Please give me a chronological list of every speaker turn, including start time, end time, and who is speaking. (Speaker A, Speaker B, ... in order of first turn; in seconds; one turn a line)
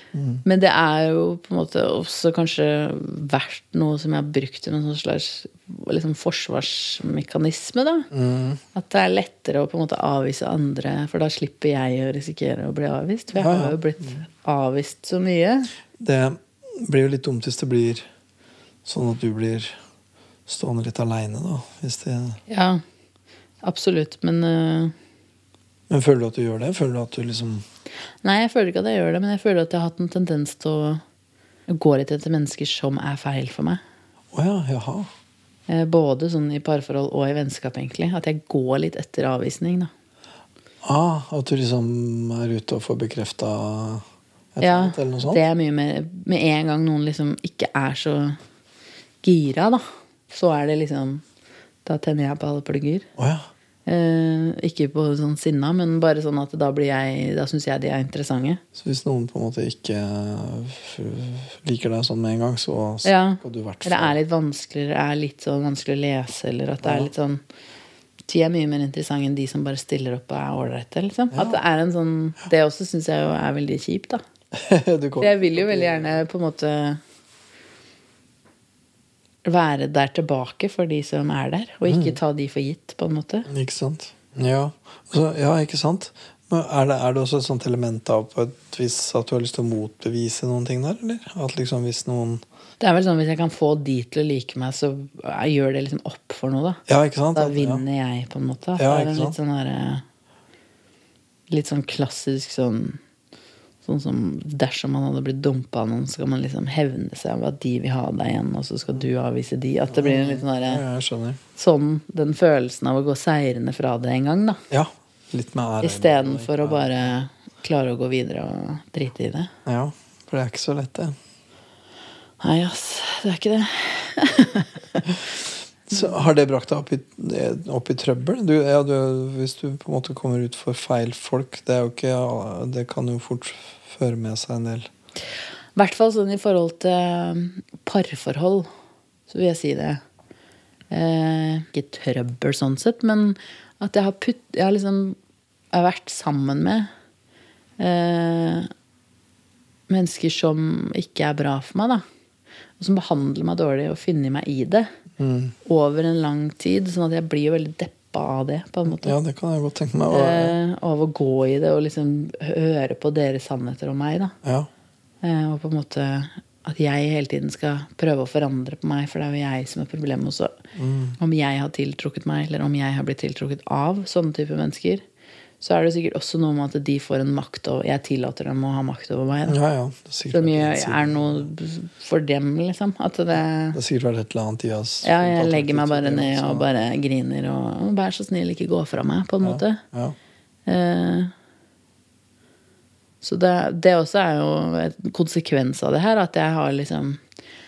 Speaker A: 0.1-0.4
Speaker B: 0.4-8.1
Speaker A: 8.1-8.6
Speaker B: 8.7-15.7
Speaker A: 13.3-14.2
Speaker A: 16.0-18.0
Speaker A: 18.8-19.8
Speaker A: 20.5-22.4
Speaker B: 22.5-22.8
Speaker B: 23.6-24.9
Speaker A: 25.9-27.6
Speaker B: 28.2-31.0
Speaker B: 31.7-33.8
Speaker A: 34.3-35.1
Speaker B: 35.7-39.9
Speaker A: 40.8-45.4
Speaker B: 44.6-48.4
Speaker B: 49.2-51.2
Speaker B: 51.8-53.1
Speaker A: 53.2-53.5
Speaker B: 53.9-58.6
Speaker A: 58.7-64.2
Speaker B: 63.0-67.4
Speaker A: 66.8-67.1
Speaker B: 68.3-74.2
Speaker A: 71.3-71.6
Speaker A: 74.5-76.2
Speaker B: 75.2-77.0
Speaker B: 79.4-83.5
Speaker A: 81.8-82.2
Speaker A: 83.5-92.4
Speaker B: 92.8-96.8
Speaker A: 96.9-97.8
Speaker B: 97.3-100.0
Speaker A: 98.8-99.3
Speaker B: 101.5-103.0
Speaker B: 103.8-110.8
Speaker A: 109.9-111.4
Speaker B: 111.5-114.6
Speaker A: 114.7-117.1
Speaker B: 115.8-119.5
Speaker A: 119.7-121.2
Speaker B: 122.4-125.0
Speaker A: 125.9-134.9
Speaker B: 135.8-138.7
Speaker B: 139.3-140.0
Speaker B: 140.9-145.2
Speaker B: 145.7-146.9
Speaker B: 147.8-148.7
Speaker B: 149.9-152.0
Speaker B: 152.8-154.9
Speaker A: 155.2-155.5
Speaker B: 155.6-159.2
Speaker A: 158.9-160.5
Speaker B: 160.1-164.3
Speaker A: 164.4-164.7
Speaker B: 165.2-170.6
Speaker A: 170.7-171.2
Speaker B: 171.2-175.0
Speaker B: 175.6-179.6
Speaker A: 179.5-181.4
Speaker B: 180.3-183.8
Speaker A: 183.7-186.7
Speaker B: 185.0-189.8
Speaker A: 189.4-190.2
Speaker B: 190.7-191.3
Speaker B: 193.2-197.2